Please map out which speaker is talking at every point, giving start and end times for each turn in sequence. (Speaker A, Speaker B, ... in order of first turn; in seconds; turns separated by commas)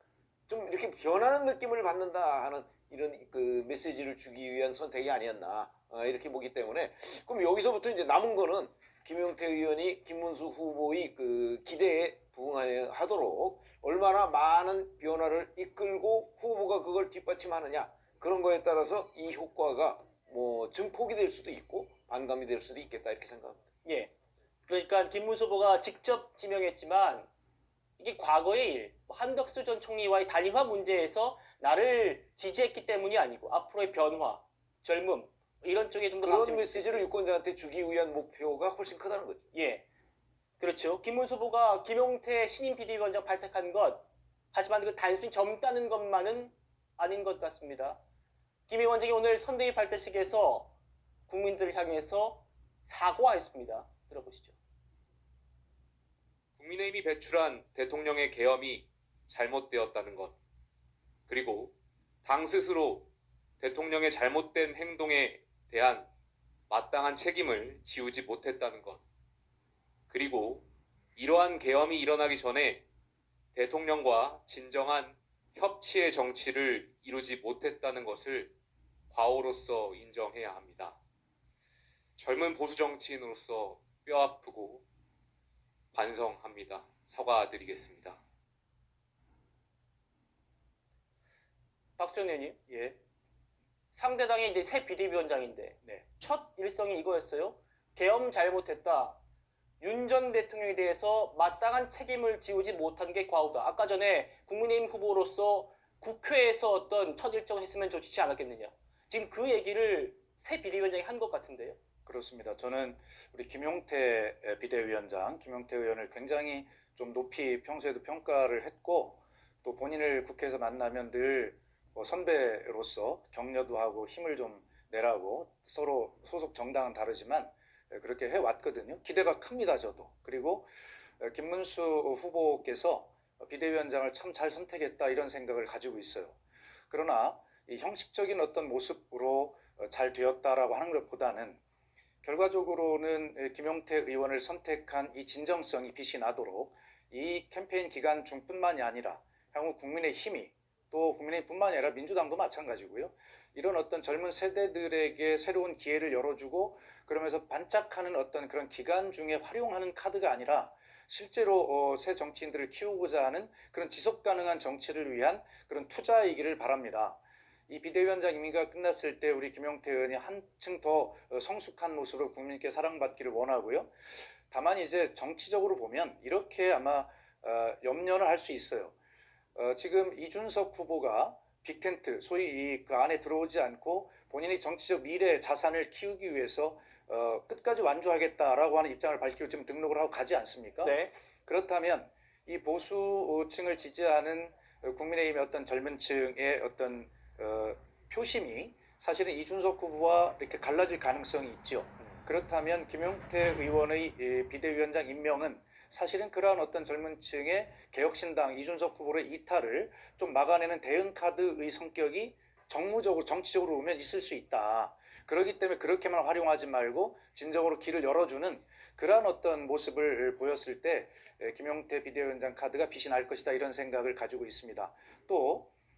Speaker A: 0.5-23.6, Speaker B: 23.9-24.1, Speaker B: 24.7-27.3, Speaker B: 28.0-37.1, Speaker A: 36.2-39.5, Speaker B: 39.5-39.9, Speaker B: 40.6-48.0, Speaker B: 48.7-50.8, Speaker B: 51.3-54.6, Speaker C: 56.6-60.4, Speaker C: 61.3-66.1, Speaker C: 66.7-69.0, Speaker C: 70.1-72.8, Speaker C: 73.5-78.5, Speaker C: 79.1-81.0, Speaker C: 82.2-84.8, Speaker C: 85.9-88.2, Speaker B: 92.0-92.6, Speaker D: 92.7-93.0, Speaker B: 93.9-99.2, Speaker B: 99.8-111.8, Speaker D: 112.1-136.4, Speaker D: 136.9-141.6, Speaker D: 142.2-173.9, Speaker D: 174.5-178.9, Speaker D: 179.6-225.7, Speaker B: 190.8-191.2